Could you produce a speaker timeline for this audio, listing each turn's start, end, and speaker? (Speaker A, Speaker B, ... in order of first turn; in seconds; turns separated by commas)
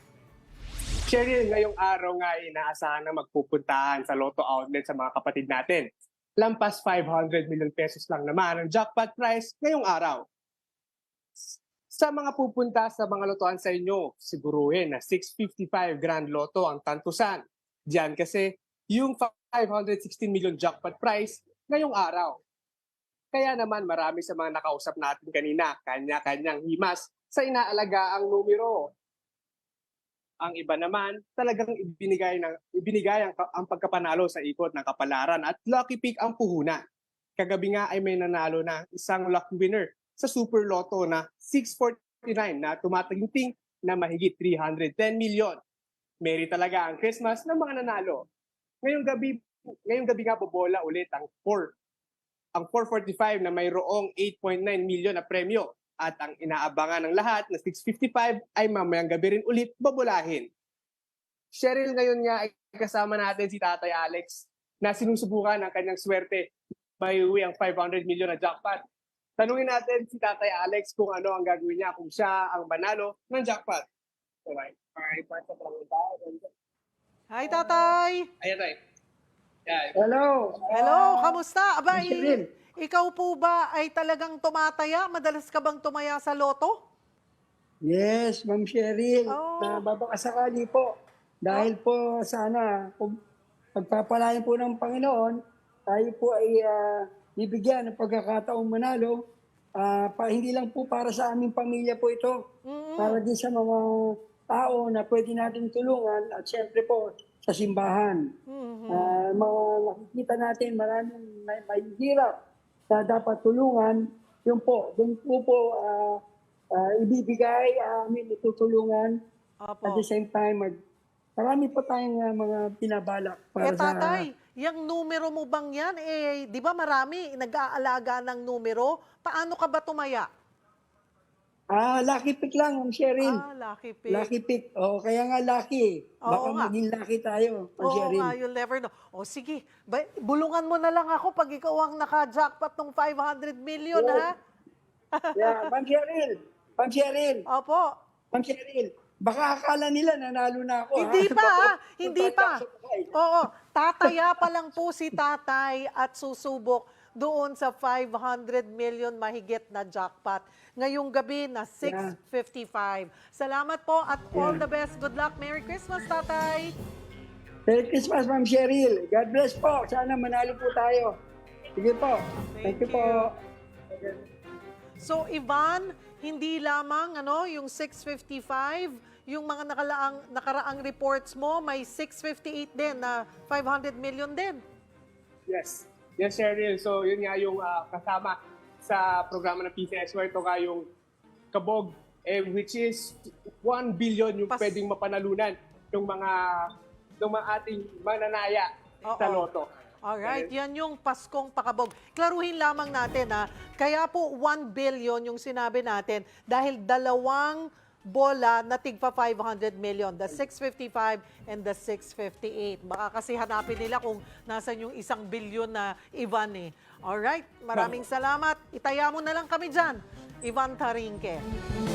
Speaker A: 1.1-5.9, Speaker A: 6.4-10.2, Speaker A: 11.4-22.4, Speaker A: 23.3-28.9, Speaker A: 30.4-36.8, Speaker A: 37.4-45.6, Speaker A: 46.2-48.2, Speaker A: 48.8-51.7, Speaker A: 52.5-60.5, Speaker A: 61.5-68.8, Speaker A: 69.4-73.9, Speaker A: 74.5-76.5, Speaker B: 77.3-78.3, Speaker A: 77.4-78.8, Speaker A: 79.7-80.0, Speaker C: 80.0-81.4, Speaker B: 80.7-86.8, Speaker C: 81.9-82.4, Speaker C: 87.9-90.9, Speaker B: 89.3-89.8, Speaker C: 91.4-93.1, Speaker C: 93.8-95.3, Speaker C: 95.9-99.2, Speaker C: 99.8-102.4, Speaker B: 102.7-103.2, Speaker C: 103.0-103.9, Speaker C: 104.5-108.2, Speaker B: 108.5-109.2, Speaker C: 108.9-112.3, Speaker C: 112.9-116.2, Speaker C: 116.7-119.1, Speaker B: 119.6-120.0, Speaker C: 119.8-120.7, Speaker C: 121.4-124.2, Speaker B: 123.6-130.3, Speaker C: 131.7-133.4, Speaker B: 133.2-134.3, Speaker C: 134.1-138.3, Speaker B: 136.3-136.7, Speaker B: 137.8-144.3, Speaker C: 143.9-144.3, Speaker B: 145.2-145.7, Speaker C: 145.4-147.4, Speaker B: 147.5-147.9, Speaker C: 148.3-153.1, Speaker B: 150.9-152.6, Speaker B: 153.1-166.7, Speaker C: 161.8-162.1, Speaker C: 164.3-164.6, Speaker C: 167.7-171.1, Speaker C: 171.8-173.3, Speaker B: 172.4-173.3, Speaker C: 173.9-174.2, Speaker B: 175.0-184.6, Speaker A: 185.5-190.9, Speaker A: 191.5-196.7, Speaker B: 194.5-194.8, Speaker A: 197.2-199.7, Speaker B: 199.1-199.5, Speaker B: 200.1-221.4, Speaker A: 200.2-200.5